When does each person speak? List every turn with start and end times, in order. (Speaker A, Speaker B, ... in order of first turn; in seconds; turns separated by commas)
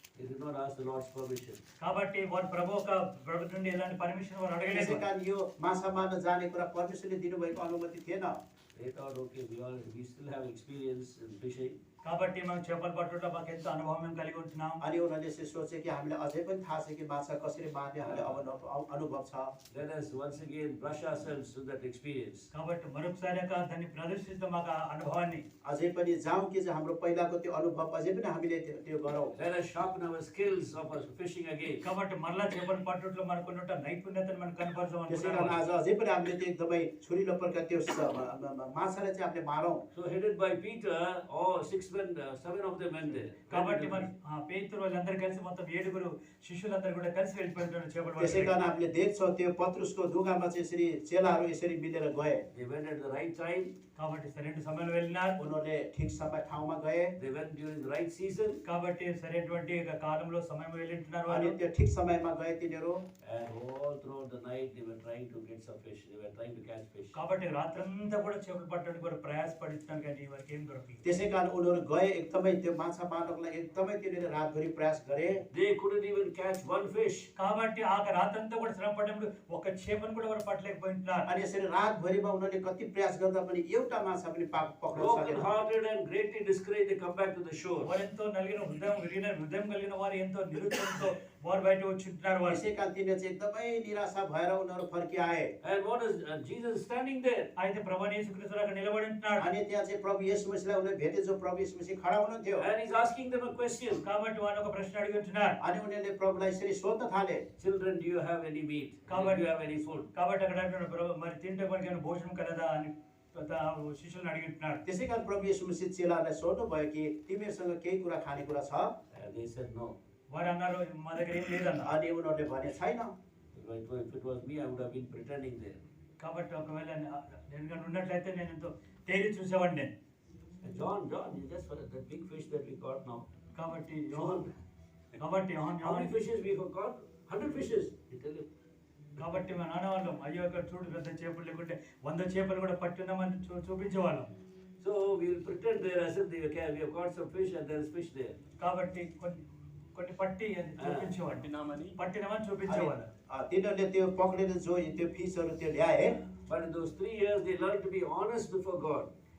Speaker A: 0.1-1.6, Speaker B: 1.8-5.0, Speaker C: 4.7-8.4, Speaker A: 8.7-11.8, Speaker B: 12.0-14.8, Speaker C: 14.8-19.5, Speaker A: 18.0-18.4, Speaker A: 19.7-22.5, Speaker B: 22.5-25.4, Speaker C: 25.6-29.4, Speaker A: 29.3-31.9, Speaker B: 31.8-35.6, Speaker C: 35.1-39.8, Speaker A: 39.9-44.1, Speaker B: 43.5-48.5, Speaker C: 48.2-52.4, Speaker A: 52.5-53.7, Speaker B: 54.0-55.4, Speaker C: 55.4-57.1, Speaker A: 57.2-58.6, Speaker B: 58.6-61.5, Speaker C: 61.3-63.0, Speaker A: 63.2-67.2, Speaker B: 67.1-71.0, Speaker C: 71.0-75.4, Speaker A: 75.5-77.3, Speaker B: 77.3-81.3, Speaker C: 81.3-85.5, Speaker A: 84.9-87.9, Speaker B: 87.8-92.6, Speaker C: 92.5-95.5, Speaker A: 95.6-97.5, Speaker B: 97.5-99.5, Speaker C: 99.4-102.7, Speaker A: 102.6-104.0, Speaker B: 104.0-105.6, Speaker C: 105.6-107.4, Speaker A: 107.6-110.1, Speaker B: 109.1-109.4, Speaker B: 110.1-114.8, Speaker C: 114.8-118.9, Speaker A: 119.1-120.0, Speaker B: 120.3-121.9, Speaker C: 121.8-123.1, Speaker A: 123.5-125.8, Speaker B: 126.2-129.9, Speaker A: 130.6-133.2, Speaker B: 133.5-134.5, Speaker A: 134.1-134.5, Speaker B: 135.2-136.1, Speaker A: 135.8-138.5, Speaker B: 139.2-144.3, Speaker A: 144.8-148.4, Speaker B: 148.6-153.1, Speaker A: 150.8-151.3, Speaker C: 152.7-156.2, Speaker A: 156.5-159.1